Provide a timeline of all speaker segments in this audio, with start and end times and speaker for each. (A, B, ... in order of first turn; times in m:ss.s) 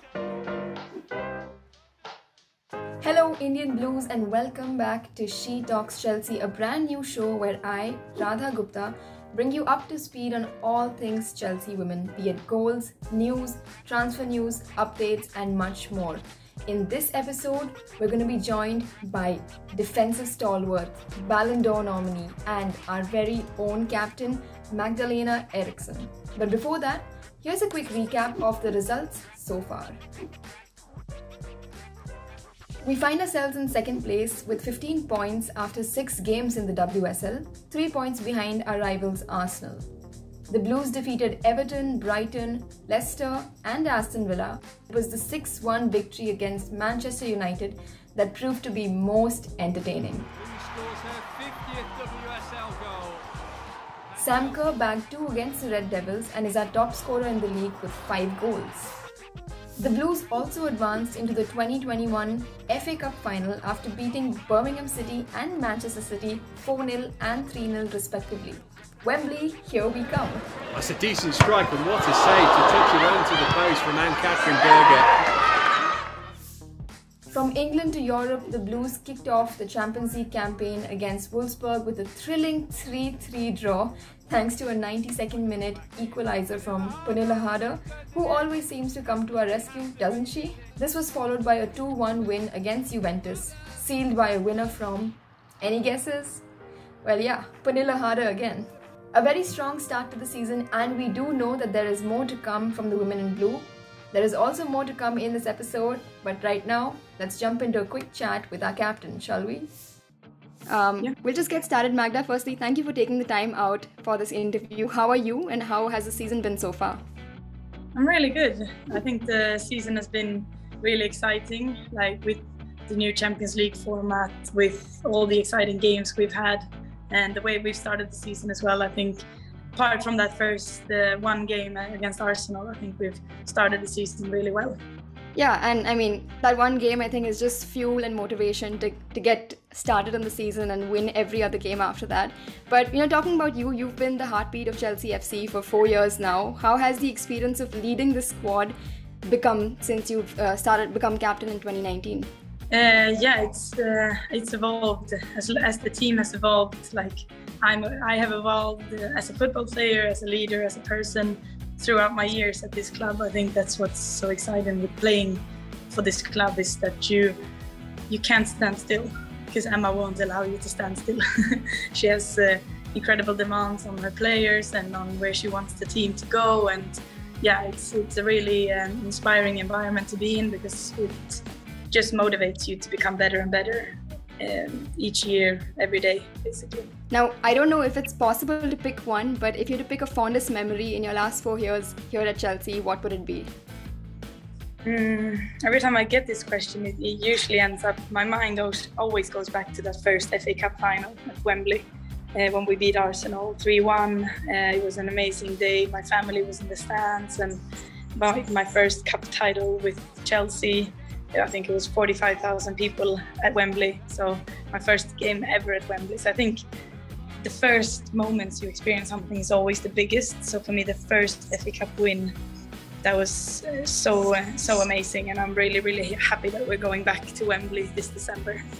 0:03.0-0:30.0 A
0:32.8-0:39.9 A
0:40.5-0:50.3 A
0:50.4-0:53.2 B
0:54.2-0:58.9 A
0:59.8-1:10.5 A
1:10.7-1:15.1 B
1:17.3-1:36.4 A
1:37.0-1:49.7 A
1:50.7-1:57.0 A
1:57.9-2:14.8 C
2:15.3-2:32.3 A
2:32.7-2:47.4 C
2:48.1-3:06.9 C
3:07.1-3:13.5 A
3:14.8-3:27.6 C
3:28.2-3:36.6 C
3:37.4-3:42.3 C
3:43.0-3:48.6 C